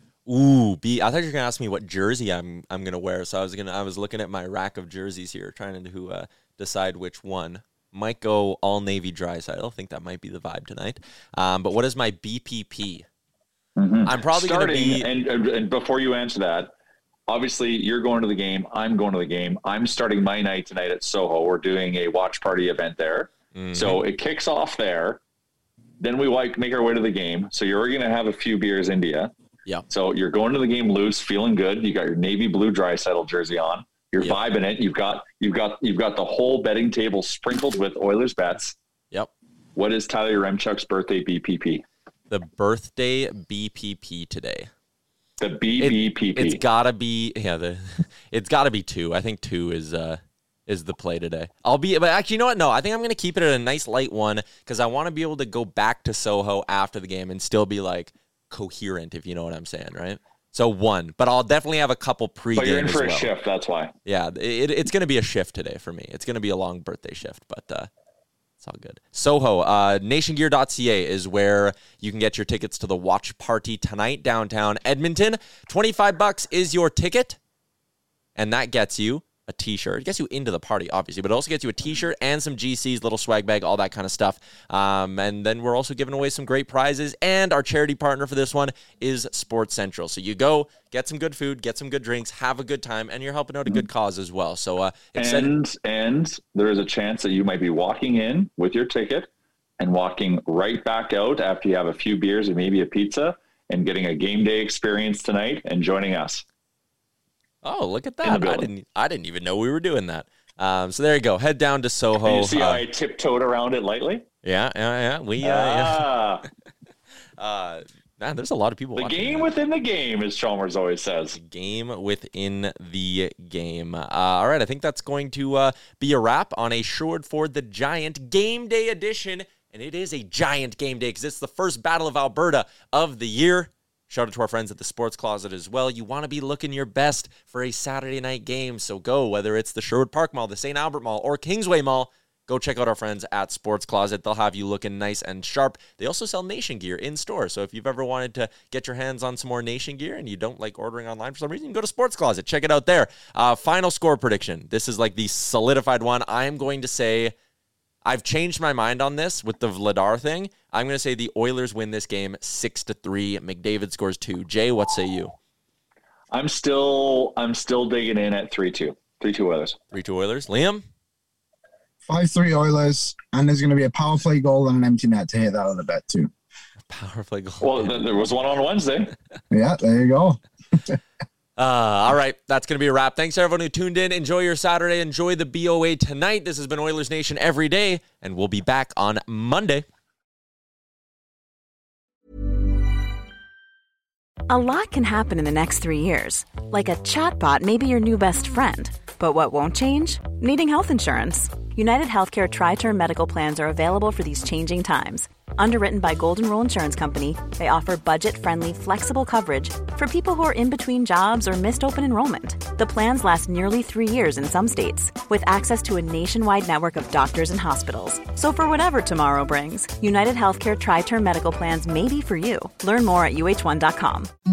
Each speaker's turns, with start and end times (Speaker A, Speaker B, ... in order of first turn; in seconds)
Speaker A: 0.3-13.1, 14.0-15.1, 23.5-24.0, 42.3-44.7, 45.8-63.3, 64.0-67.9, 68.6-77.4, 78.3-95.5, 107.6-112.8, 114.4-116.1, 117.4-119.5, 121.3-157.3, 158.0-165.3, 169.9-170.8, 176.9-178.0, 181.6-189.8
Speaker B: 13.8-16.7, 17.3-25.2, 26.0-29.3, 29.9-38.7, 39.8-41.8, 45.4-46.6, 62.5-63.9, 95.2-99.3, 99.8-106.4, 108.2-108.7, 112.2-114.2, 115.4-116.4, 119.0-121.4, 166.3-169.8, 177.6-179.1
Speaker C: 172.1-176.3, 179.5-181.0
Speaker D: 194.5-224.3